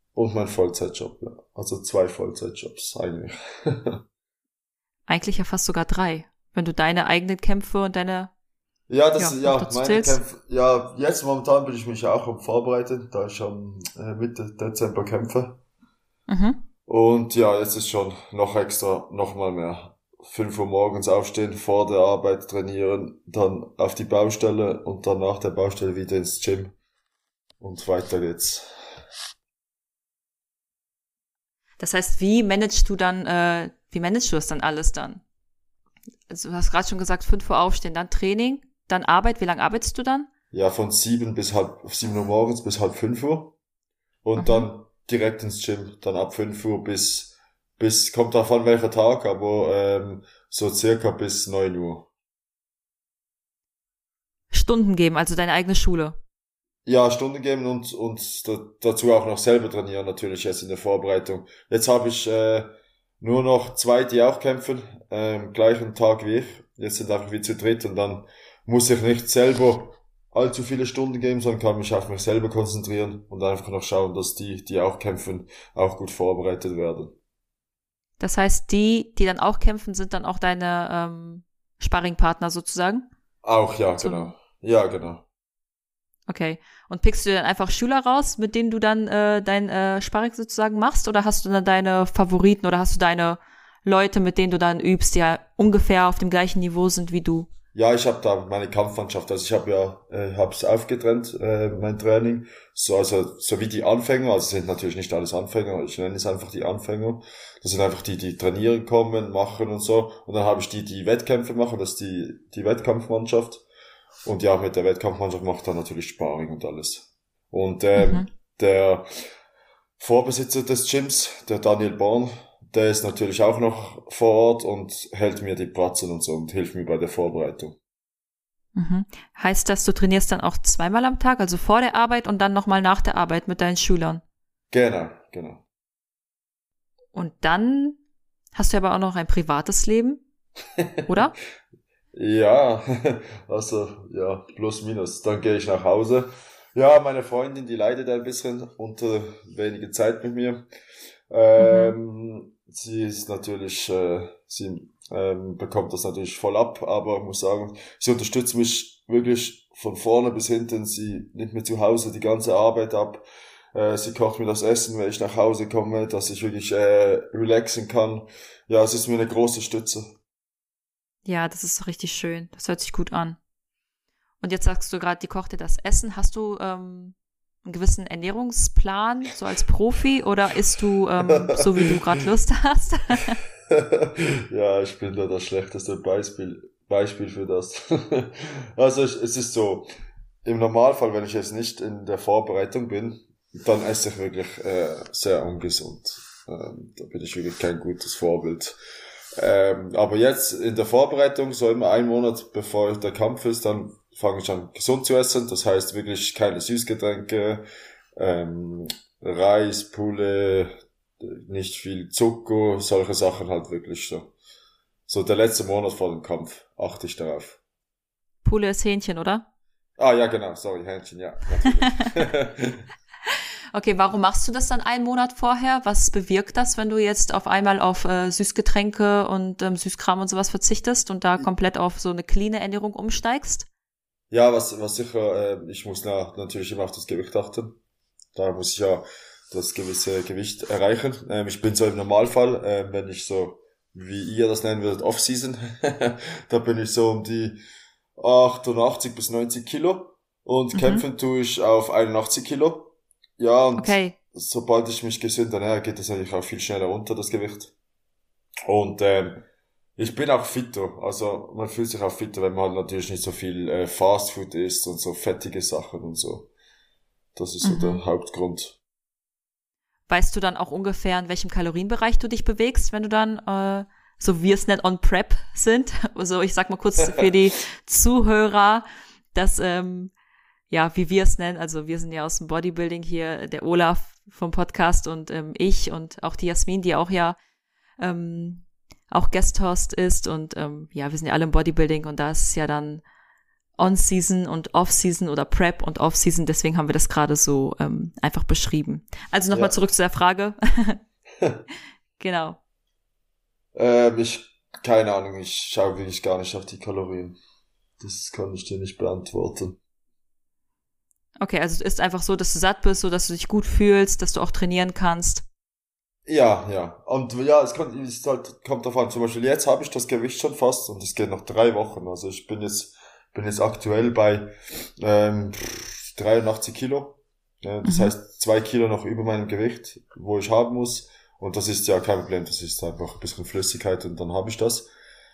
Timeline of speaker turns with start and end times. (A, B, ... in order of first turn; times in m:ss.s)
0:00.2-0:04.0 A
0:05.1-0:08.3 B
0:08.9-0:15.6 A
0:09.2-0:10.2 B
0:16.3-0:16.6 B
0:16.9-0:26.8 A
0:27.6-0:28.7 A
0:31.8-0:35.2 B
0:36.3-0:40.3 B
0:40.5-0:43.6 A
0:44.2-0:52.1 A
0:44.4-0:44.7 B
0:54.5-0:56.2 B
0:56.9-1:17.2 A
1:18.2-1:23.1 B
1:23.4-1:25.2 A
1:24.0-1:24.3 B
1:26.3-1:37.5 B
1:37.7-1:53.6 A
1:54.2-1:59.3 A
1:58.0-1:58.3 B
2:00.0-2:07.8 A
2:08.8-2:14.2 B
2:14.7-2:15.6 A
2:17.2-2:18.0 B
2:18.6-2:20.2 B
2:20.8-2:21.1 A
2:21.1-2:21.3 B
2:22.1-2:30.7 A
2:31.3-2:50.2 A
2:31.6-2:32.0 B
2:51.3-2:53.4 B
2:54.4-3:03.4 B
3:01.2-3:01.9 A
3:03.7-3:09.9 A
3:10.4-3:18.8 A
3:19.4-3:27.6 A
3:28.2-3:34.3 A
3:35.1-3:37.6 A
3:38.4-3:39.5 B
3:40.0-3:42.8 A
3:41.8-3:42.1 B
3:43.7-3:53.7 B
3:54.3-3:57.8 A
3:58.4-4:07.6 A
4:08.2-4:17.7 A
4:10.7-4:11.0 B
4:13.8-4:14.2 B
4:18.7-4:19.4 A
4:20.0-4:26.5 A
4:27.4-4:28.8 A
4:27.6-4:28.0 B
4:30.1-4:40.1 B
4:37.0-4:37.3 A
4:40.7-4:47.4 B
4:48.0-4:53.0 B
4:53.8-5:01.0 B
5:02.2-5:02.6 B
5:03.8-5:07.4 A
5:08.0-5:09.8 A
5:11.4-5:15.4 B
5:16.3-5:34.9 A
5:27.8-5:28.1 B